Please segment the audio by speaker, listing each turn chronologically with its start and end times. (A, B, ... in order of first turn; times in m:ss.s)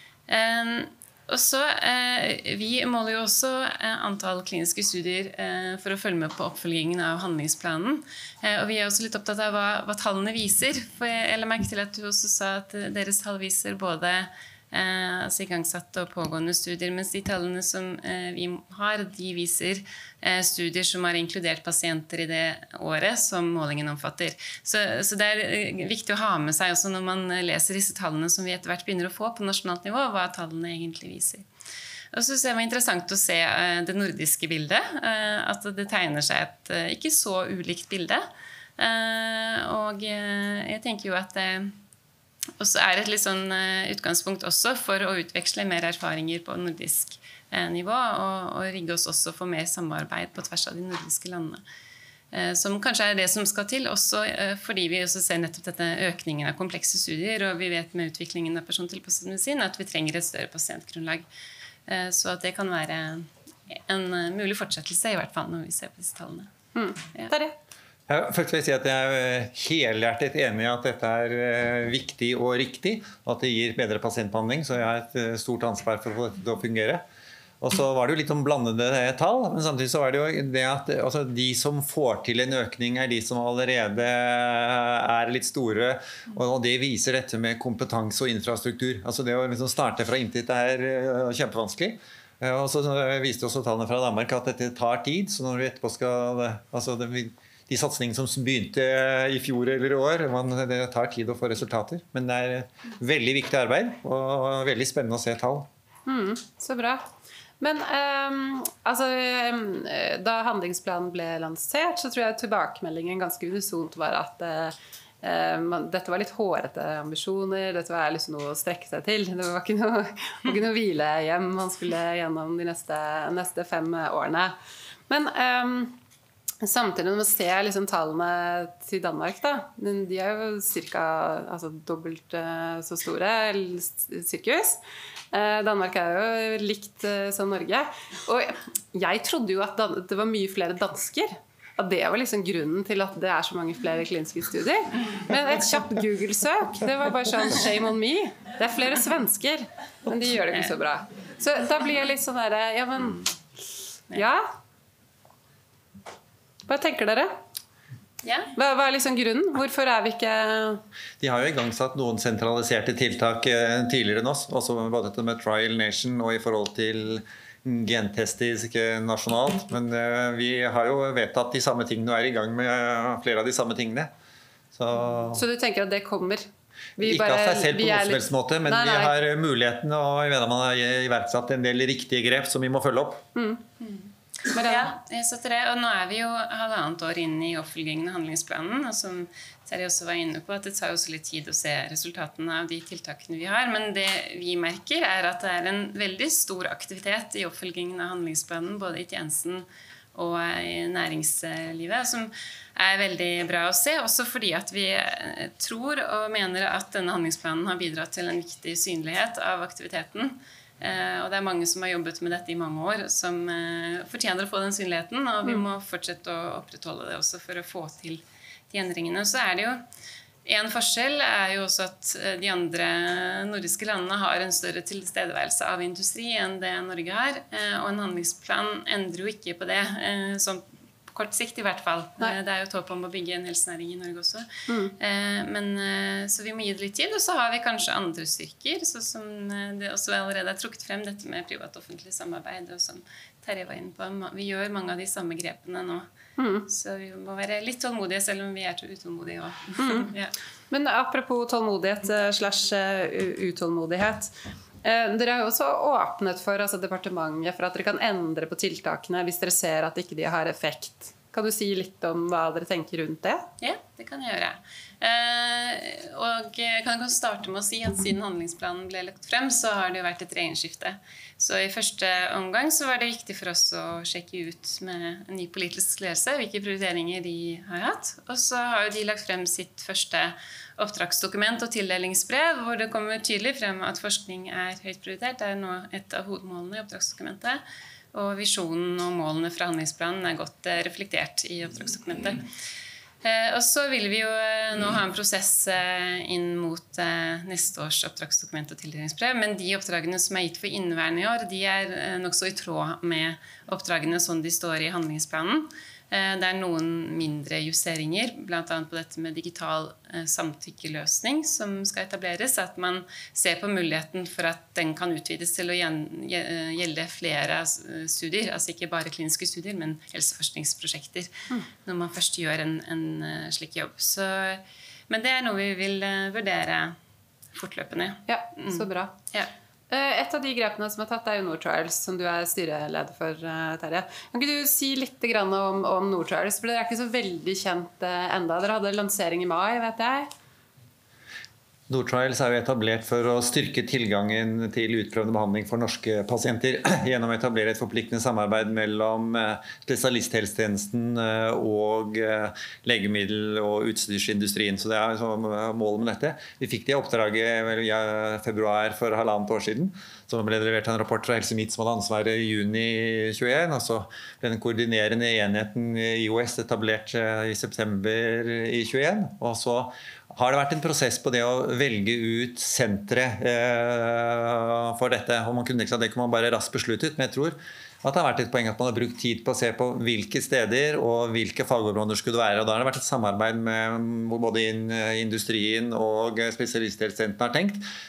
0:00.3-0:31.4 A
0:32.1-0:38.2 A
0:38.8-0:41.7 A
0:42.6-0:51.6 A
0:52.3-1:01.2 A
1:01.9-1:06.5 A
1:06.7-1:07.6 B
1:08.1-1:17.0 C
1:17.6-1:45.7 C
1:46.0-1:47.1 B
1:47.6-2:04.5 B
2:05.1-2:06.0 B
2:06.6-2:14.8 B
2:15.3-2:33.3 B
2:34.1-2:34.5 B
2:36.7-2:37.3 B
2:38.2-2:38.5 A
2:38.6-2:40.8 B
2:41.2-2:54.1 C
2:54.7-2:55.4 C
2:55.3-2:59.1 B
2:57.0-3:03.2 C
3:03.3-3:03.6 B
3:03.8-3:04.1 A
3:04.5-3:04.9 B
3:04.6-3:39.8 A
3:40.4-3:54.4 A
3:54.7-3:54.9 B
3:55.0-4:06.1 A
4:06.4-4:06.7 B
4:06.6-4:10.3 A
4:09.8-4:10.1 B
4:10.7-4:14.3 B
4:14.8-4:23.5 B
4:23.6-4:47.6 A
4:48.1-4:52.4 A
4:53.2-5:21.3 A
5:21.8-5:27.0 A
5:27.5-5:29.5 A
5:28.3-5:29.1 B
5:29.9-5:40.3 B
5:41.9-6:27.8 C